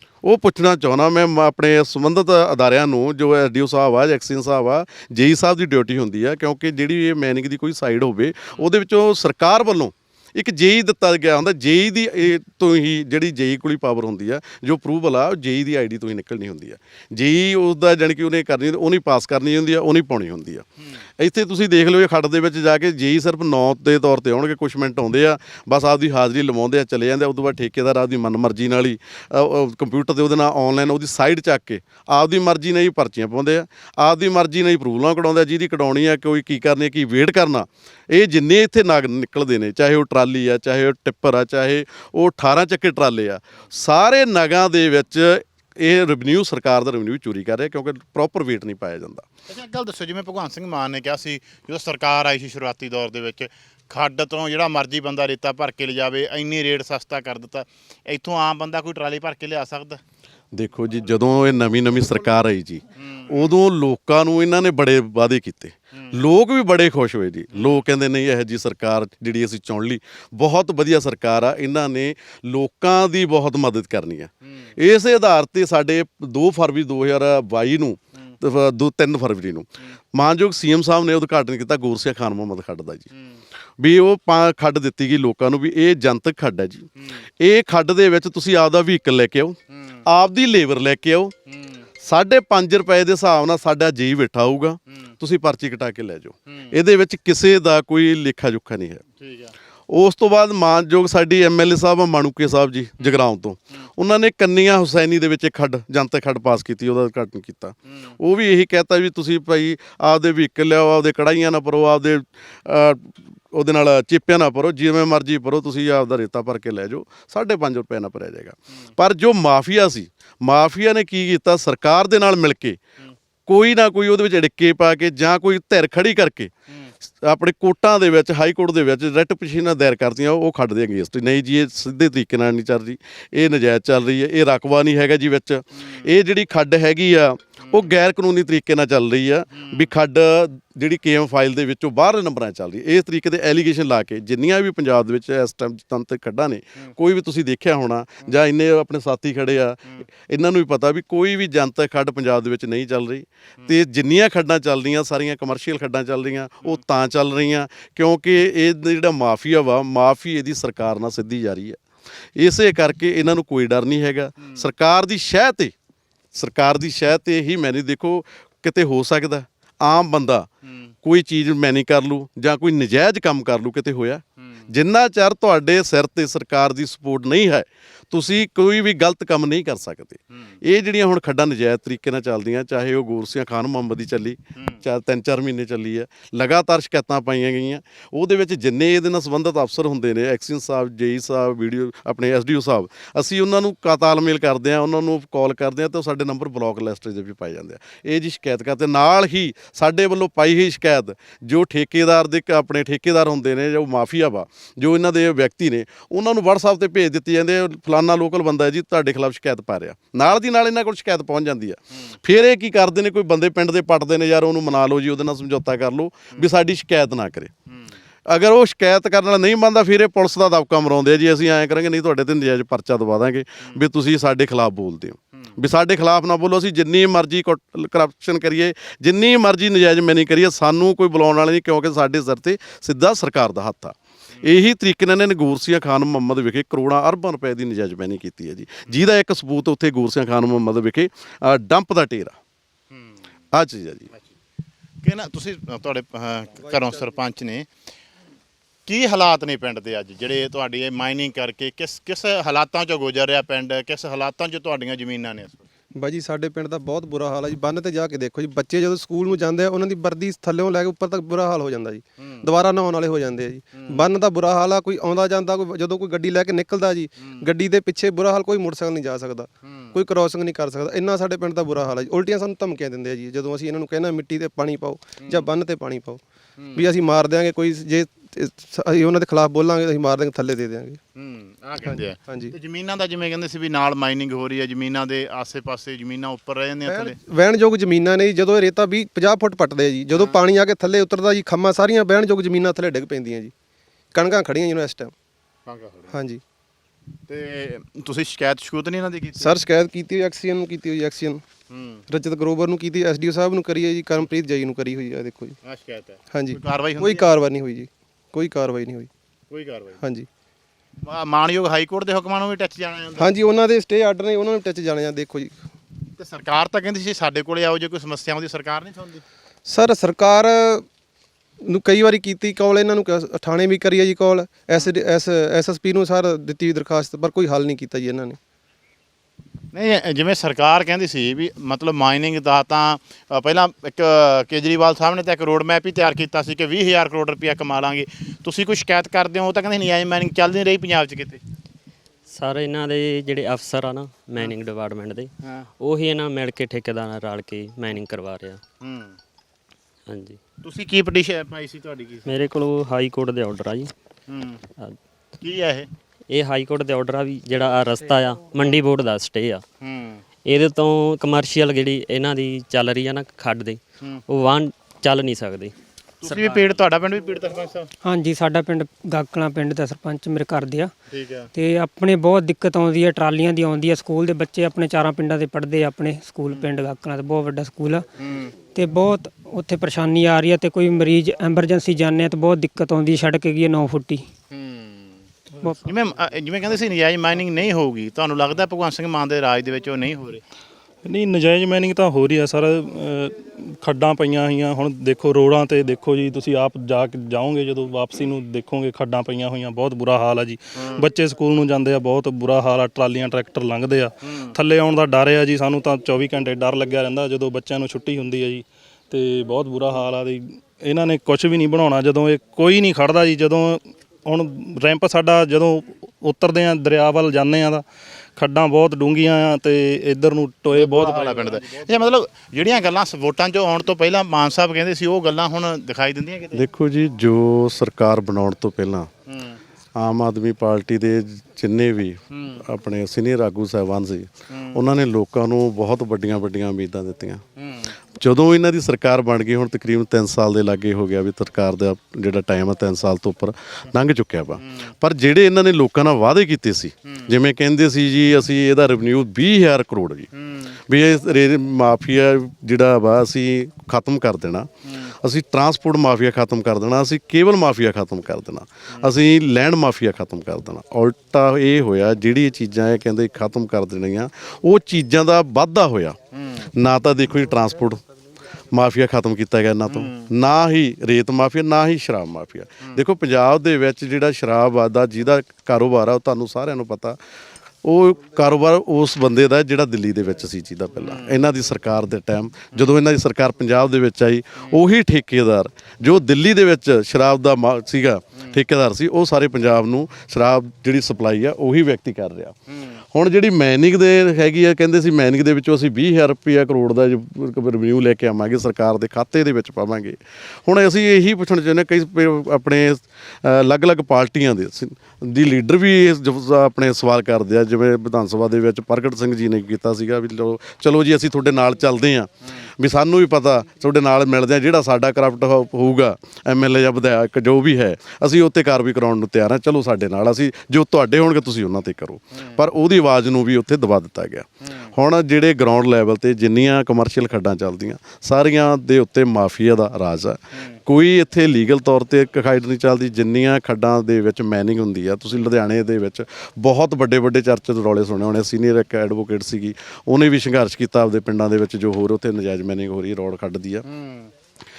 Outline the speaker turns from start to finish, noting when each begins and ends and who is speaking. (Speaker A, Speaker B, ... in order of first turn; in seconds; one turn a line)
Speaker A: 0.2-20.6
Speaker A: 21.2-49.2
Speaker B: 49.5-60.0
Speaker A: 60.5-83.1
Speaker B: 63.0-63.4
Speaker A: 83.8-86.9
Speaker A: 87.4-91.3
Speaker B: 89.7-90.0
Speaker B: 91.5-91.8
Speaker A: 92.0-99.0
Speaker B: 99.2-99.5
Speaker A: 99.9-122.8
Speaker A: 123.5-126.5
Speaker A: 127.2-161.8
Speaker A: 162.4-165.7
Speaker A: 166.3-170.5
Speaker A: 171.0-217.5
Speaker A: 218.3-242.4
Speaker A: 243.5-244.1
Speaker B: 245.0-247.7
Speaker B: 248.8-255.6
Speaker C: 255.9-276.2
Speaker B: 262.2-262.4
Speaker B: 263.8-264.1
Speaker B: 269.6-270.0
Speaker B: 276.6-276.8
Speaker C: 276.7-281.0
Speaker B: 281.1-287.1
Speaker C: 281.8-282.5
Speaker C: 286.9-293.5
Speaker C: 294.1-295.1
Speaker B: 295.6-296.1
Speaker C: 296.1-296.4
Speaker B: 297.3-299.6
Speaker C: 299.4-301.4
Speaker B: 301.7-302.0
Speaker C: 302.1-305.5
Speaker B: 305.6-307.3
Speaker C: 306.3-309.1
Speaker B: 309.5-310.0
Speaker C: 310.0-310.3
Speaker B: 311.0-313.3
Speaker C: 313.1-315.6
Speaker B: 316.2-319.2
Speaker C: 319.6-320.9
Speaker C: 321.6-328.4
Speaker B: 329.7-341.4
Speaker D: 342.3-348.6
Speaker B: 348.8-349.2
Speaker D: 350.1-350.4
Speaker B: 350.6-352.3
Speaker D: 352.3-353.9
Speaker B: 354.3-354.6
Speaker B: 355.4-355.9
Speaker D: 356.3-359.6
Speaker B: 359.8-360.2
Speaker D: 360.4-365.7
Speaker B: 366.2-367.9
Speaker D: 366.3-366.5
Speaker E: 368.0-370.9
Speaker B: 371.1-371.5
Speaker E: 371.5-378.1
Speaker B: 378.2-378.5
Speaker E: 378.7-384.3
Speaker B: 384.5-385.1
Speaker B: 385.8-390.4
Speaker F: 391.0-417.8
Speaker F: 418.4-421.5
Speaker B: 420.7-426.6
Speaker A: 426.5-429.1
Speaker B: 429.3-429.6
Speaker A: 429.9-437.4
Speaker B: 432.3-432.6
Speaker B: 434.5-434.8
Speaker B: 437.6-437.9
Speaker A: 438.2-450.3
Speaker B: 450.3-450.8
Speaker A: 450.9-466.2
Speaker B: 454.9-455.1
Speaker B: 466.3-466.7
Speaker A: 466.8-468.0
Speaker A: 468.7-477.2
Speaker B: 469.9-470.3
Speaker A: 477.8-492.6
Speaker B: 481.0-481.4
Speaker B: 492.7-493.0
Speaker A: 493.1-543.8
Speaker B: 543.9-544.3